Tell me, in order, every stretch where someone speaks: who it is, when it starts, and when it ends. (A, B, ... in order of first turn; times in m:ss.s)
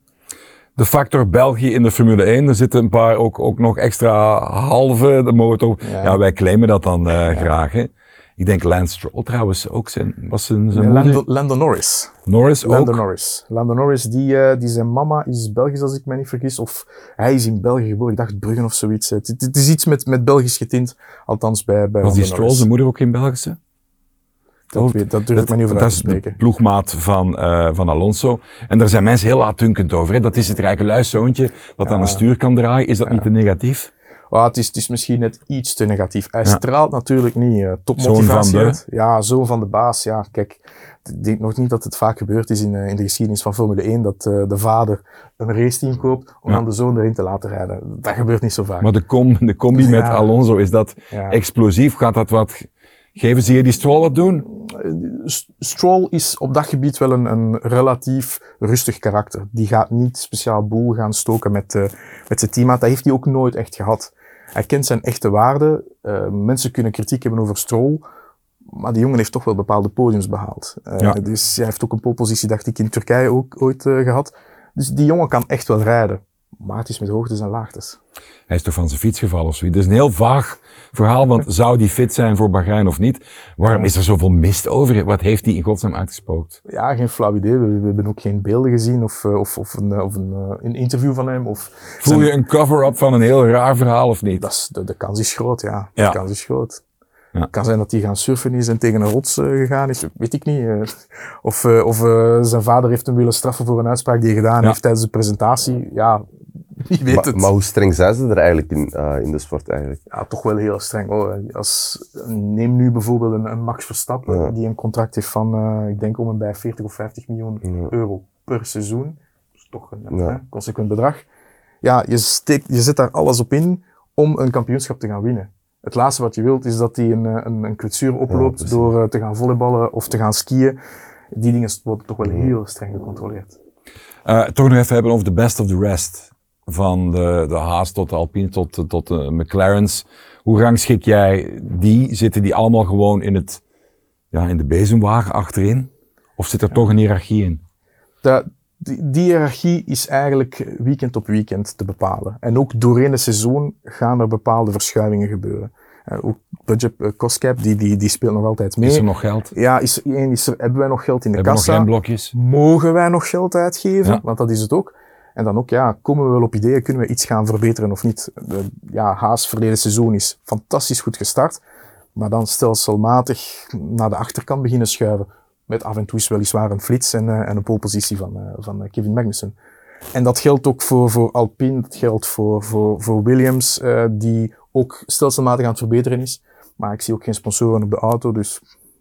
0:00.8-0:11.2 A
0:05.8-0:06.2 B
0:07.2-0:07.5 B
0:10.7-0:22.7 B
0:12.3-0:13.0 A
0:22.0-0:23.6 A
0:24.7-0:26.4 B
0:24.8-0:33.9 A
0:31.8-0:32.3 B
0:34.3-0:48.9 B
0:38.0-0:38.8 A
0:48.8-0:54.5 A
0:49.7-0:50.3 B
0:51.1-0:51.4 B
0:54.5-1:08.0 B
1:08.7-1:18.0 B
1:18.5-1:26.6 A
1:26.7-1:32.3 B
1:32.0-1:34.4 A
1:34.4-1:36.8 B
1:37.5-1:46.3 B
1:46.8-1:47.5 B
1:47.1-1:50.0 C
1:50.1-2:01.2 B
1:54.3-1:54.5 C
1:57.7-1:57.9 C
2:00.1-2:00.4 C
2:01.8-2:10.8 B
2:08.3-2:08.9 C
2:11.3-2:13.6 B
2:12.2-2:12.5 C
2:14.3-2:23.6 A
2:24.3-2:27.6 A
2:28.2-2:51.6 B
2:38.8-2:39.5 A
2:41.4-2:42.3 A
2:52.2-2:59.6 B
3:00.1-3:08.6 B